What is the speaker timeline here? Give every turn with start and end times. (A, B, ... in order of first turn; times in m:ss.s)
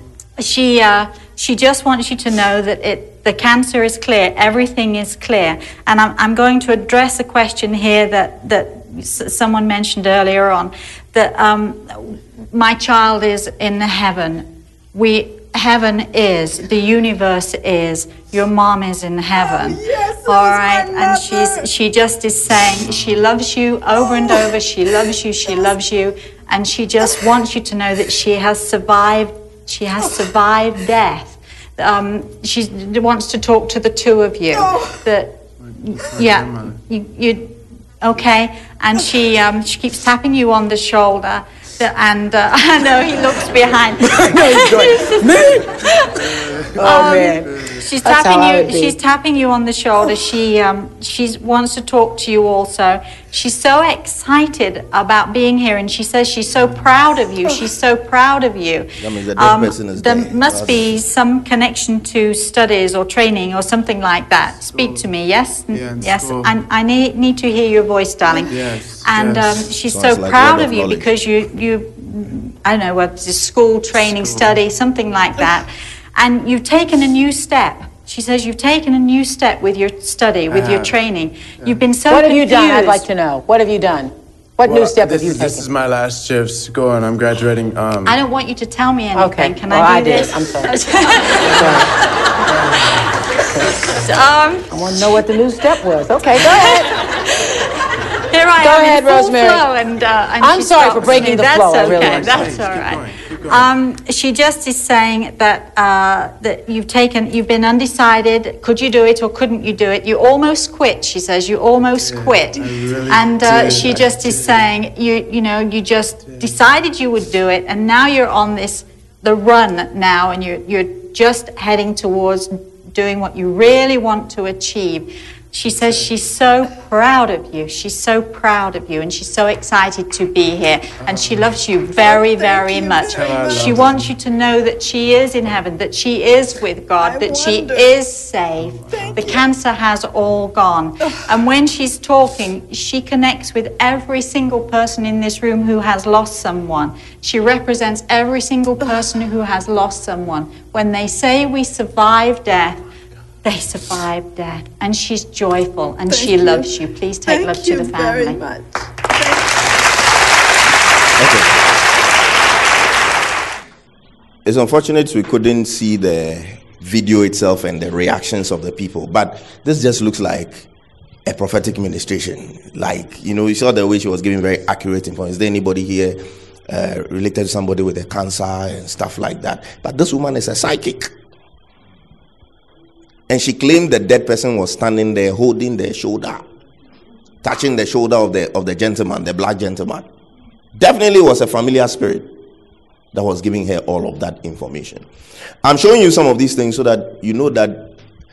0:00.4-0:46.3 A
0:19.4-0:21.5 B
0:35.6-0:36.8 C
0:44.2-0:45.6 D
0:44.6-0:45.0 C
0:46.8-0:49.0 D
0:46.8-1:23.0 A
0:47.4-0:47.8 C
0:59.0-1:01.0 E
1:04.7-1:05.1 C
1:05.7-1:06.6 C
1:08.3-1:09.7 C
1:09.9-1:11.1 E
1:13.9-1:14.6 C
1:20.5-1:21.0 C
1:21.6-1:21.9 C
1:22.1-1:25.7 D
1:24.6-1:28.2 C
1:28.0-1:33.0 A
1:29.1-1:31.9 D
1:31.6-1:31.8 C
1:33.9-1:34.7 A
1:34.7-1:37.0 D
1:36.5-1:36.8 A
1:38.3-2:32.8 A
1:38.6-1:39.7 D
1:40.4-1:42.4 D
1:41.8-1:43.7 C
1:52.0-1:54.7 C
1:56.2-1:56.6 C
2:05.7-2:06.1 C
2:11.0-2:11.6 C
2:12.0-2:13.0 B
2:13.0-2:14.1 C
2:17.0-2:17.8 B
2:18.8-2:19.4 C
2:33.4-2:38.4 A
2:36.1-2:36.6 B
2:37.3-2:38.6 B
2:41.2-2:41.5 E
2:44.4-2:50.7 E
2:51.3-3:01.1 E
3:03.3-3:06.4 E
3:07.4-3:10.0 E
3:10.8-3:12.3 E
3:13.1-3:15.0 E
3:15.6-3:17.9 E